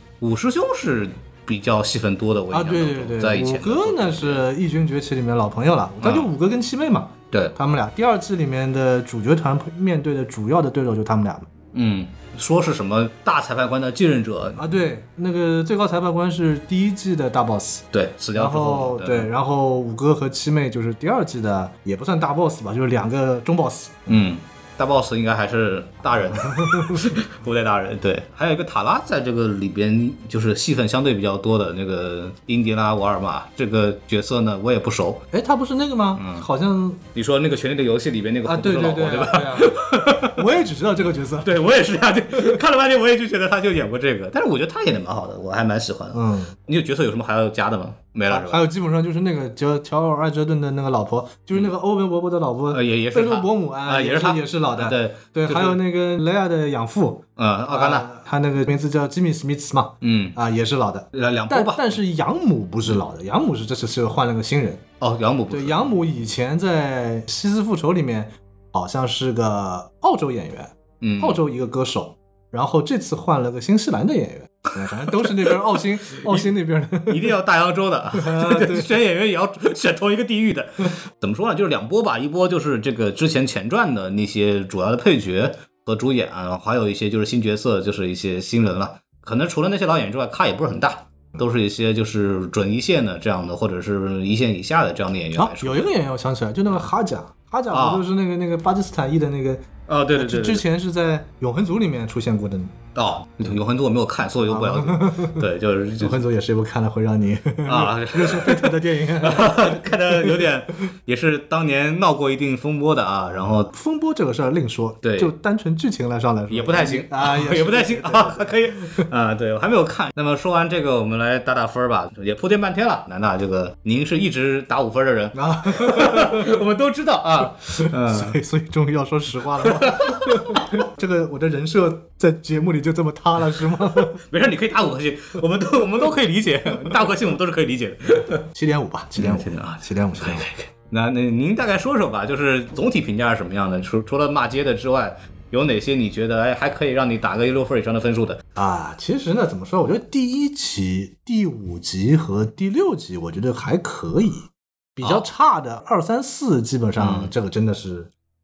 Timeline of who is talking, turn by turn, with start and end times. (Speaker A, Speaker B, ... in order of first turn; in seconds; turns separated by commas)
Speaker A: 0.2-4.5, Speaker B: 2.5-11.5, Speaker A: 6.0-6.3, Speaker A: 7.3-7.6, Speaker A: 11.7-14.6, Speaker B: 14.6-24.2, Speaker A: 17.9-19.3, Speaker A: 24.1-35.2, Speaker B: 26.4-27.1, Speaker B: 35.3-37.0, Speaker A: 36.2-36.5, Speaker A: 37.1-40.5, Speaker B: 38.5-41.6, Speaker A: 41.4-48.7, Speaker B: 46.1-46.5, Speaker B: 48.3-64.8, Speaker A: 52.7-55.8, Speaker A: 57.4-58.1, Speaker A: 60.0-60.4, Speaker A: 61.1-62.0, Speaker A: 65.0-65.9, Speaker B: 65.5-77.3, Speaker A: 71.0-71.4, Speaker A: 75.2-75.5, Speaker A: 76.1-76.5, Speaker A: 77.1-95.9, Speaker B: 78.2-78.9, Speaker B: 95.3-102.8, Speaker A: 97.7-98.0, Speaker A: 99.9-100.7, Speaker A: 103.0-106.2, Speaker B: 104.5-105.5, Speaker B: 106.0-110.5, Speaker A: 107.7-113.7, Speaker B: 113.7-119.0, Speaker A: 115.0-115.3, Speaker A: 116.5-128.4, Speaker B: 125.3-126.5, Speaker B: 127.8-134.2, Speaker A: 129.7-130.7, Speaker A: 134.1-138.4, Speaker B: 138.5-140.5, Speaker A: 139.2-148.4, Speaker B: 148.6-158.1, Speaker A: 157.0-157.3